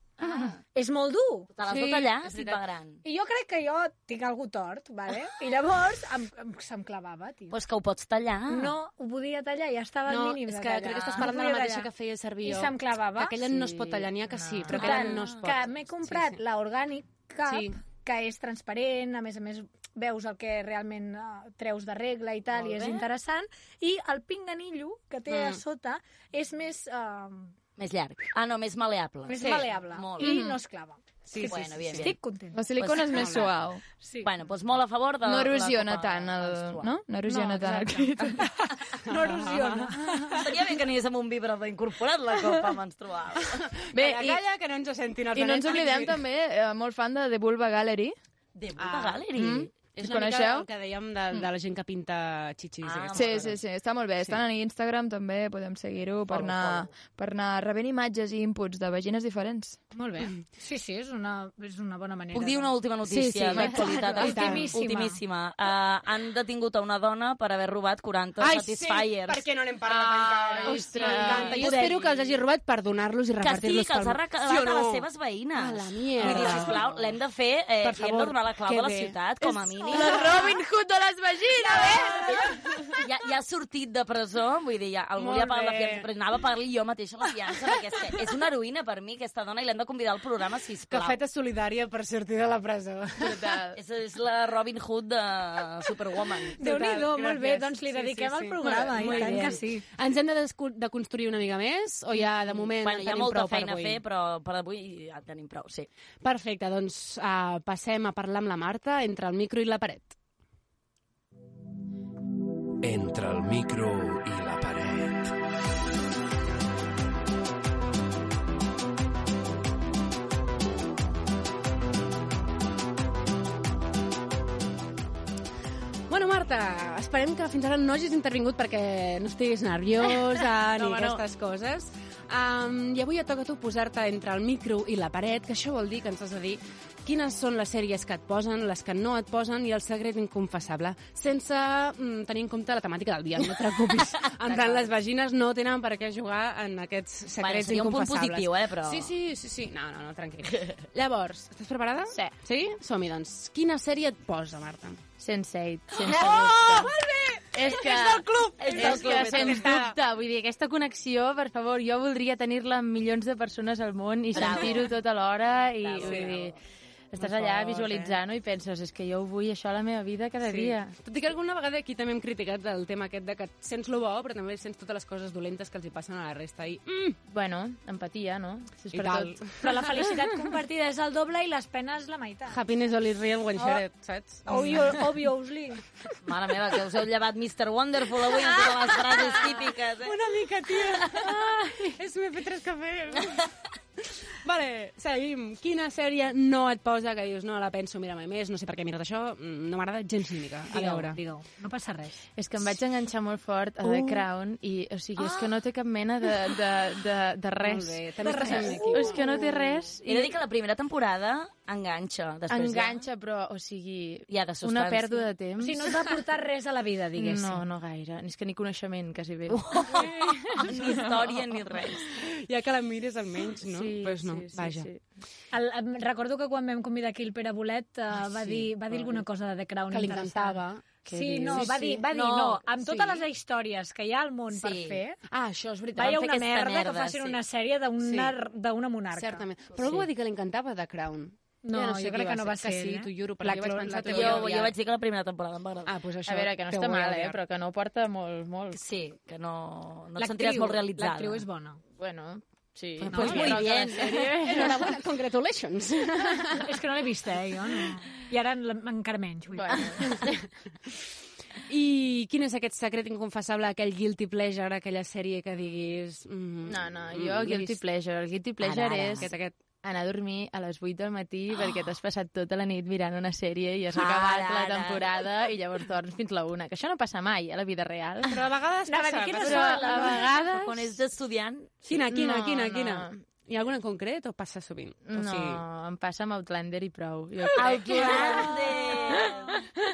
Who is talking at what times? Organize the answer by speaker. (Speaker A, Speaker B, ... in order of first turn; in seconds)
Speaker A: 0.2-0.6, 1.6-3.0, 7.5-8.7, 14.7-15.4, 22.6-23.1, 27.8-30.4, 31.4-32.1, 32.8-33.4, 34.2-36.9, 40.3-43.7, 48.5-49.7, 52.8-53.6, 56.3-56.9, 62.3-69.4, 71.1-72.3, 73.4-80.4, 83.0-91.2, 93.7-96.6, 99.0-99.5, 102.5-105.9, 130.8-131.2, 144.4-144.9, 147.4-149.1, 156.1-156.9, 158.6-159.8, 164.3-164.9, 165.8-166.6, 184.5-184.9, 186.2-190.2, 210.0-213.0, 214.3-215.3, 219.5-222.1, 232.1-232.9, 234.5-235.0, 235.9-237.4, 244.1-245.9, 248.7-251.4, 253.1-254.3, 268.6-269.3, 271.5-271.8, 273.9-275.3, 280.5-281.8, 287.5-289.6
Speaker B: 0.6-1.5, 3.0-7.6, 8.5-11.9, 12.4-13.4, 14.7-27.5, 29.3-32.6, 34.0-34.3, 37.3-38.2, 39.0-40.4, 59.9-62.7, 64.1-65.2, 71.4-71.9, 79.9-80.4, 81.6-82.2, 96.6-99.8, 179.6-182.6, 184.5-185.8, 200.7-202.2, 208.2-209.4, 215.6-217.6, 225.5-235.2, 235.9-239.4, 241.6-244.4, 250.2-251.8, 253.1-253.6, 256.6-260.1, 278.9-280.3, 287.9-289.3
Speaker C: 1.7-2.6, 10.1-16.4, 17.4-17.8, 25.3-25.6, 29.3-29.7, 31.3-32.1, 33.1-33.5, 39.0-40.4, 43.6-46.2, 48.8-49.2, 49.9-53.5, 63.5-64.7, 68.4-77.2, 77.8-79.2, 79.9-80.3, 85.2-86.0, 90.9-93.4, 96.5-104.0, 106.2-110.1, 126.1-155.0, 156.0-160.0, 164.4-164.7, 166.0-166.4, 167.2-168.2, 170.4-177.2, 178.9-180.2, 182.5-185.0, 188.4-193.5, 194.4-201.2, 207.6-209.5, 219.9-221.1, 222.0-224.9, 228.3-229.2, 229.9-232.0, 235.3-236.2, 238.0-238.3, 239.1-244.7, 245.8-247.4, 253.0-256.7, 260.0-260.5, 261.7-267.8, 269.2-269.6, 278.2-280.2, 281.8-285.6
Speaker D: 13.6-14.9, 152.1-152.4, 155.2-156.9, 157.5-166.5, 167.1-170.9, 177.3-179.4, 202.3-210.4, 212.5-216.1, 217.2-219.9, 223.6-225.0, 231.1-231.8, 243.4-244.5, 246.2-248.8, 251.9-254.9, 259.6-260.3, 266.6-278.4, 279.4-280.9, 282.0-283.2, 285.0-288.6
Speaker E: 30.2-30.6, 32.5-33.8, 35.2-38.5, 43.9-44.4, 45.3-48.1, 49.3-50.7, 53.1-59.8, 63.1-64.4, 69.9-71.8, 76.3-76.6, 79.5-83.0, 93.2-93.8
Speaker F: 112.8-115.3